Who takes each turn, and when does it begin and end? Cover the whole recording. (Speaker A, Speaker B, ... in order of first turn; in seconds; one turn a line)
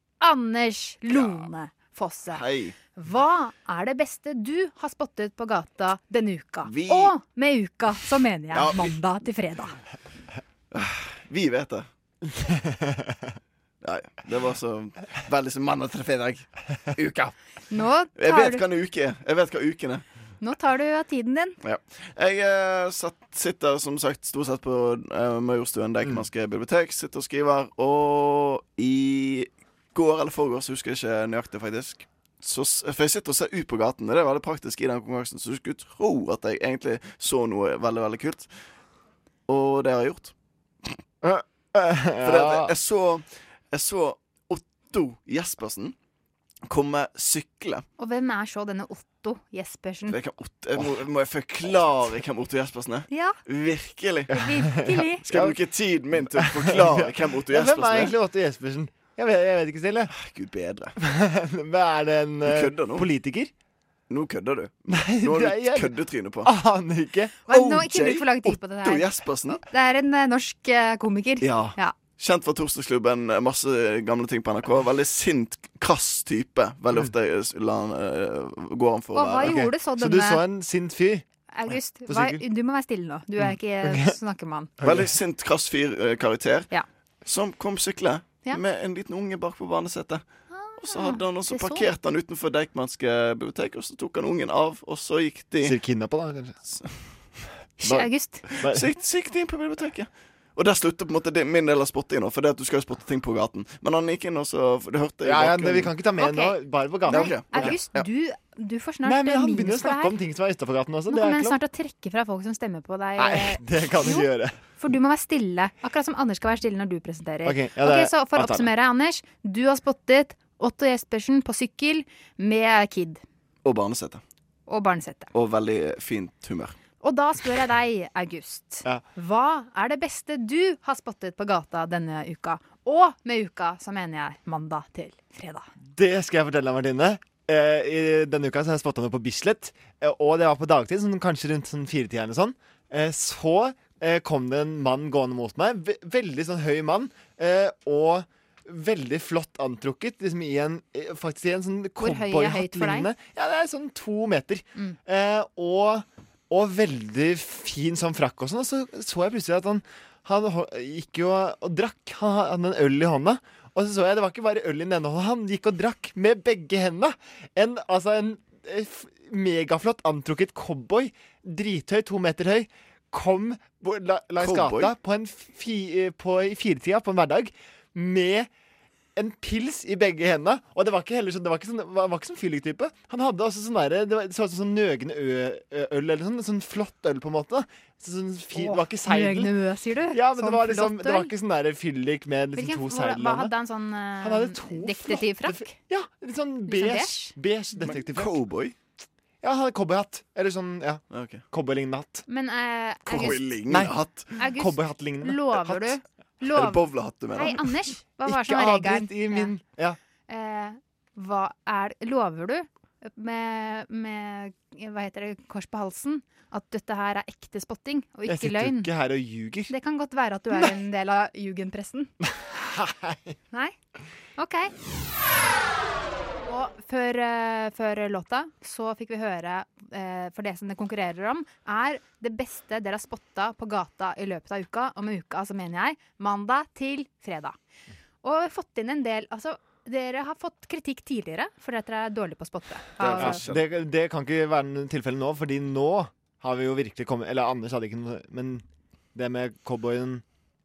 Speaker A: 0.2-9.8
Speaker B: 1.1-1.4
Speaker B: 2.3-2.8
Speaker B: 6.7-7.1
Speaker B: 8.5-8.9
Speaker B: 10.7-11.9
Speaker C: 12.5-12.9
Speaker B: 13.8-17.3
Speaker A: 17.7-18.6
Speaker B: 18.2-20.0
Speaker A: 20.4-21.6
Speaker B: 21.6-38.5
Speaker B: 39.5-40.3
Speaker C: 41.2-42.7
Speaker B: 42.2-46.0
Speaker B: 46.7-47.9
Speaker A: 48.0-50.2
Speaker B: 50.1-54.3
Speaker A: 53.1-53.4
Speaker A: 54.3-55.2
Speaker C: 54.6-55.6
Speaker B: 55.2-58.1
Speaker C: 56.1-60.1
Speaker B: 60.1-61.0
Speaker C: 61.0-63.5
Speaker B: 62.5-63.1
Speaker B: 64.1-66.5
Speaker C: 64.9-67.9
Speaker A: 67.5-69.2
Speaker B: 67.9-69.6
Speaker A: 69.7-72.0
Speaker B: 71.4-79.5
Speaker A: 79.1-80.4
Speaker C: 79.4-82.4
Speaker A: 81.5-84.7
Speaker C: 83.4-84.1
Speaker C: 84.8-85.2
Speaker B: 84.8-86.7
Speaker B: 87.2-90.2
Speaker A: 90.5-91.9
Speaker B: 90.8-95.8
Speaker C: 95.6-96.6
Speaker A: 97.8-98.5
Speaker C: 97.8-98.9
Speaker B: 98.5-105.9
Speaker C: 105.2-107.8
Speaker A: 106.1-110.2
Speaker B: 107.1-108.0
Speaker C: 109.0-111.6
Speaker A: 111.1-123.2
Speaker C: 113.2-114.6
Speaker C: 117.5-118.7
Speaker B: 123.6-124.2
Speaker A: 124.7-125.3
Speaker B: 125.3-126.8
Speaker A: 127.0-135.7
Speaker C: 135.9-178.5
Speaker A: 152.0-153.1
Speaker B: 174.4-174.9
Speaker C: 179.2-189.6
Speaker A: 188.6-191.3
Speaker C: 190.1-193.5
Speaker A: 192.5-195.8
Speaker C: 194.2-198.4
Speaker A: 196.7-197.3
Speaker B: 197.9-198.8
Speaker C: 199.4-202.2
Speaker B: 201.1-201.4
Speaker A: 202.3-203.5
Speaker B: 203.1-204.4
Speaker C: 203.2-206.0
Speaker A: 204.4-209.5
Speaker B: 206.5-207.7
Speaker C: 208.2-210.0
Speaker A: 210.3-218.9
Speaker C: 218.2-219.7
Speaker A: 219.7-222.1
Speaker C: 222.6-223.3
Speaker A: 224.4-224.7
Speaker A: 226.5-237.6
Speaker A: 238.2-243.4
Speaker B: 243.0-243.6
Speaker C: 243.0-248.6
Speaker C: 249.2-250.2